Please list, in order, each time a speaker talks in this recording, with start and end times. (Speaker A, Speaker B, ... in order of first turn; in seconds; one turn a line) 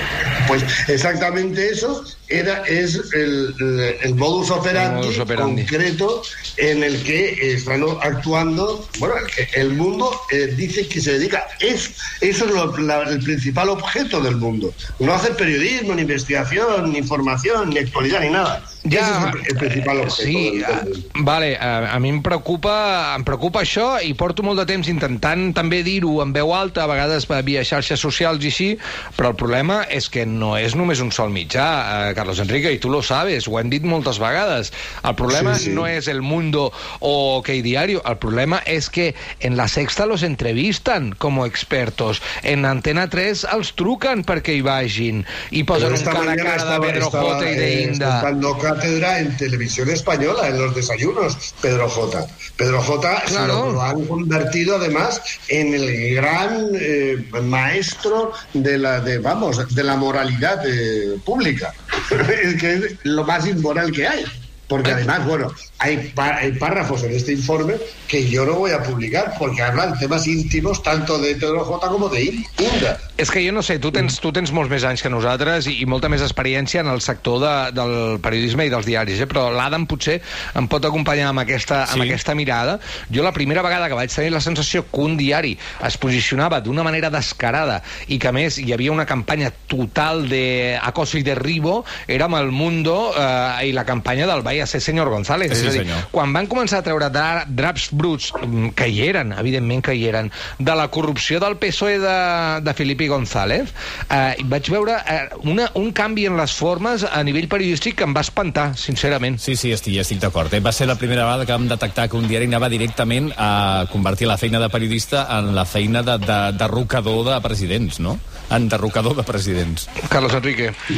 Speaker A: 0.4-21.1
Speaker B: 4.7-5.7
Speaker B: 18.8-48.3
Speaker A: 35.3-35.9
Speaker A: 45.7-73.0
Speaker B: 53.3-53.8
Speaker B: 73.2-109.4
Speaker C: 95.5-96.0
Speaker C: 109.4-119.8
Speaker B: 120.0-120.8